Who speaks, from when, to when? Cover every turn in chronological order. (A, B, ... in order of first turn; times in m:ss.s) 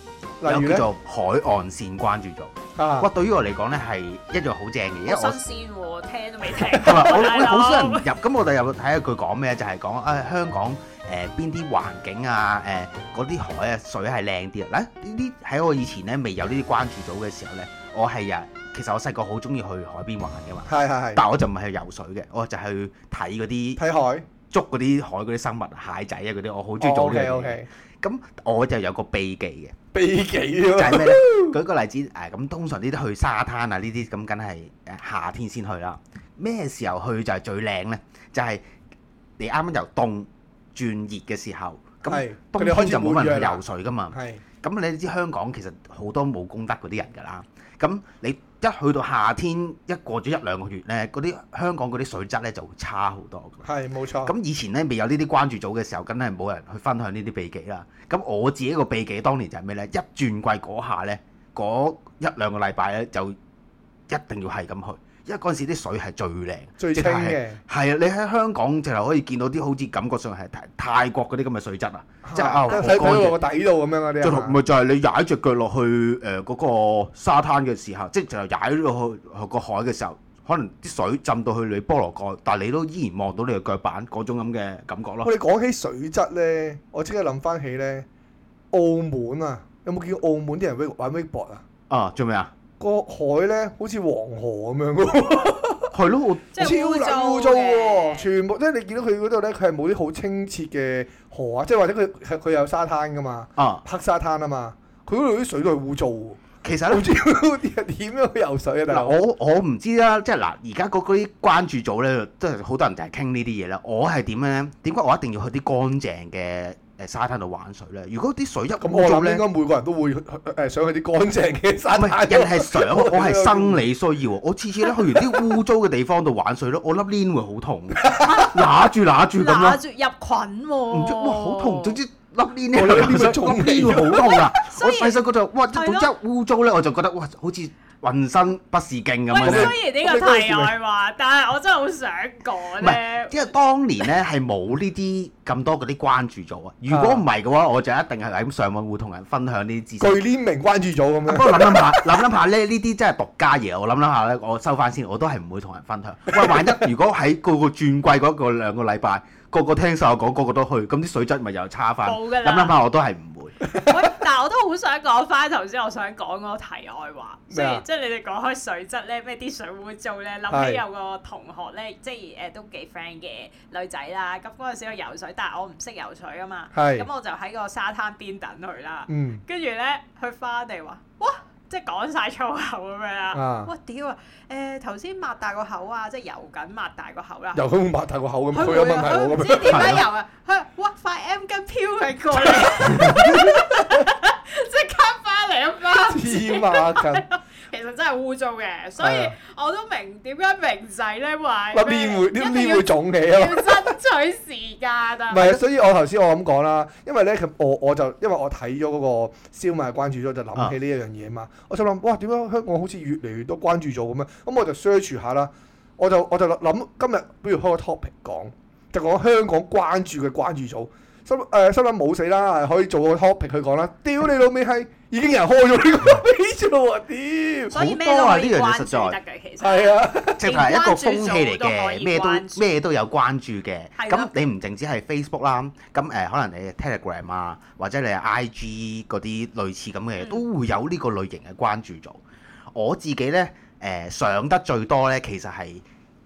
0:00.4-0:00.8 A
0:00.4-0:05.4 B
0:02.8-0:03.1 A
0:05.0-0:08.1 C
0:06.7-0:23.8 B
0:20.7-0:21.2 A
0:23.8-0:24.2 A
0:24.5-0:29.7 B
0:26.8-0:27.7 A
0:29.9-0:31.5 A
0:30.7-0:38.6 B
0:39.4-0:53.6 B
0:42.0-0:44.4 A
0:53.6-0:54.3 A
0:54.2-1:03.4 B
1:04.1-1:13.4 B
1:06.8-1:07.6 A
1:12.2-1:14.6 A
1:14.2-1:25.3 B
1:25.2-1:28.0 A
1:28.7-1:31.6 A
1:31.9-1:32.5 B
1:32.8-1:35.9 A
1:35.9-1:36.6 B
1:36.5-1:38.3 C
1:36.6-1:49.2 A
1:43.6-1:43.8 B
1:46.6-1:47.1 B
1:48.9-1:59.4 B
1:58.8-2:03.8 A
2:01.9-2:09.8 B
2:08.0-2:08.5 A
2:09.3-2:12.0 C
2:10.9-2:19.7 B
2:12.7-2:14.3 A
2:14.1-2:16.1 C
2:19.3-2:23.5 C
2:19.4-2:20.7 A
2:22.8-2:30.2 B
2:26.9-2:27.2 A
2:30.0-2:32.2 A
2:31.2-2:43.6 B
2:42.0-2:42.7 C
2:43.7-3:07.6 C
2:47.5-2:47.8 A
2:50.5-2:50.8 A
2:56.7-2:57.0 A
2:59.1-2:59.4 A
3:03.3-3:03.7 A
3:07.5-3:09.8 A
3:08.5-3:25.6 C
3:09.7-3:10.0 B
3:12.4-3:14.0 A
3:16.0-3:17.2 A
3:19.0-3:19.3 A
3:21.7-3:24.0 A
3:25.3-3:47.7 A
3:47.7-3:49.2 B
3:47.7-3:52.6 C
3:49.6-3:50.4 A
3:50.4-4:05.8 B
3:54.0-3:54.3 C